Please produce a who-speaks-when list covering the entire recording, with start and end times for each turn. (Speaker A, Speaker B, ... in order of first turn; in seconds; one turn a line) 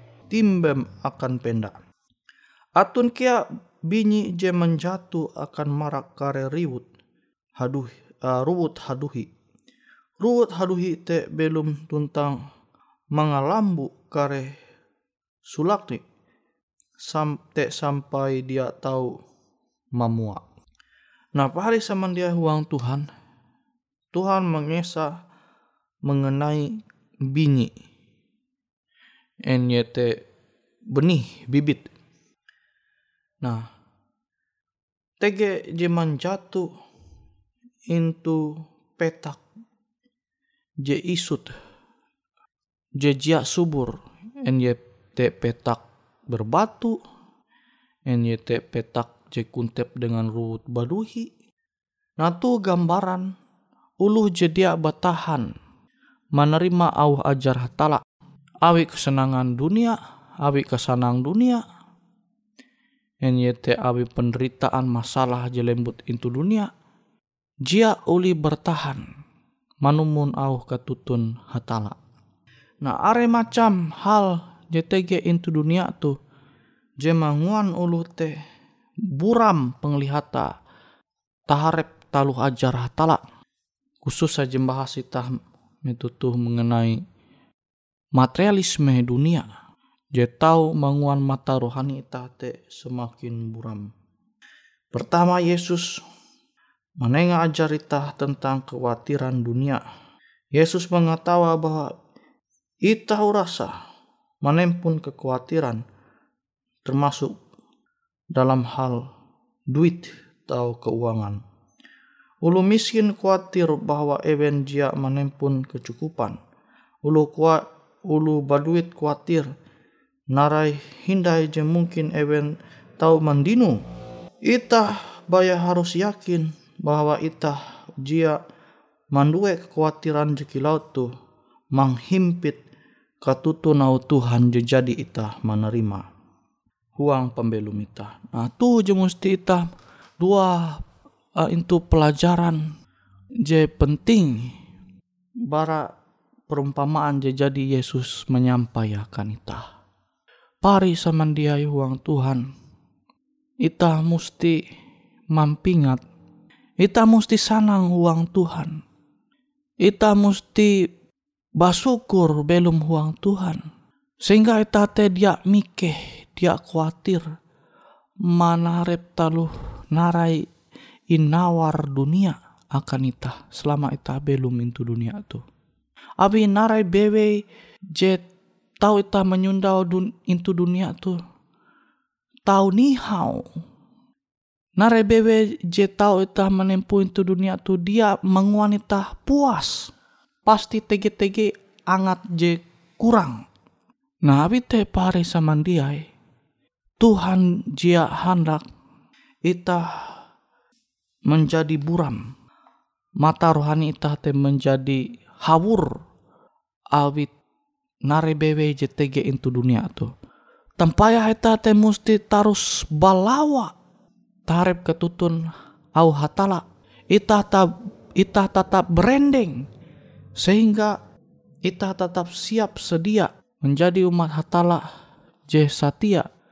Speaker A: 0.3-1.8
Speaker A: 2.8-6.9
Speaker A: 7.6-9.3
Speaker A: 10.2-12.4
Speaker A: 13.2-14.5
Speaker A: 15.5-16.0
Speaker A: 17.0-19.1
Speaker A: 20.0-20.4
Speaker A: 21.4-23.1
Speaker A: 24.1-25.1
Speaker A: 26.1-26.7
Speaker A: 27.3-27.7
Speaker A: 29.5-30.1
Speaker A: 30.9-31.9
Speaker A: 35.2-36.7
Speaker A: 37.9-38.4
Speaker A: 39.0-39.4
Speaker A: 40.8-41.5
Speaker A: 43.0-43.9
Speaker A: 44.5-47.0
Speaker A: 48.1-51.3
Speaker A: 52.2-53.3
Speaker A: 54.0-55.5
Speaker A: 56.4-58.0
Speaker A: 58.7-61.6
Speaker A: 63.2-66.7
Speaker A: 67.7-69.1
Speaker A: 69.8-72.0
Speaker A: 72.8-76.2
Speaker A: 77.0-78.3
Speaker A: 79.2-80.5
Speaker A: 81.5-83.2
Speaker A: 84.0-85.3
Speaker A: 85.8-87.0
Speaker A: 88.2-89.5
Speaker A: 90.2-93.9
Speaker A: 94.9-96.0
Speaker A: 97.0-99.8
Speaker A: 100.6-101.9
Speaker A: 102.9-103.7
Speaker A: 104.4-105.8
Speaker A: 106.8-107.4
Speaker A: 108.3-109.0
Speaker A: 109.7-111.4
Speaker A: 112.5-116.4
Speaker A: 117.1-119.5
Speaker A: 120.3-123.8
Speaker A: 124.5-128.4
Speaker A: 129.1-131.1
Speaker A: 131.8-132.6
Speaker A: 133.2-136.1
Speaker A: 137.0-139.7
Speaker A: 140.2-140.8
Speaker A: 141.4-142.6
Speaker A: 143.5-144.5
Speaker A: 145.5-145.9
Speaker A: 146.5-149.7
Speaker A: 150.6-152.4
Speaker A: 153.7-154.6
Speaker A: 155.3-156.0
Speaker A: 156.8-158.8
Speaker A: 159.8-160.7
Speaker A: 161.6-163.6
Speaker A: 164.2-167.2
Speaker A: 168.3-170.4
Speaker A: 171.1-175.4
Speaker A: 176.2-177.3
Speaker A: 178.0-178.3
Speaker A: 178.8-181.2
Speaker A: 182.5-183.4
Speaker A: 184.8-189.9
Speaker A: 190.4-193.4
Speaker A: 194.2-196.0
Speaker A: 197.0-198.7
Speaker A: 199.5-199.8
Speaker A: 201.3-202.2
Speaker A: 203.2-205.9
Speaker A: 206.9-207.3
Speaker A: 208.1-210.1
Speaker A: 210.8-213.7
Speaker A: 214.5-219.7
Speaker A: 220.4-220.9
Speaker A: 221.7-224.8
Speaker A: 225.5-226.3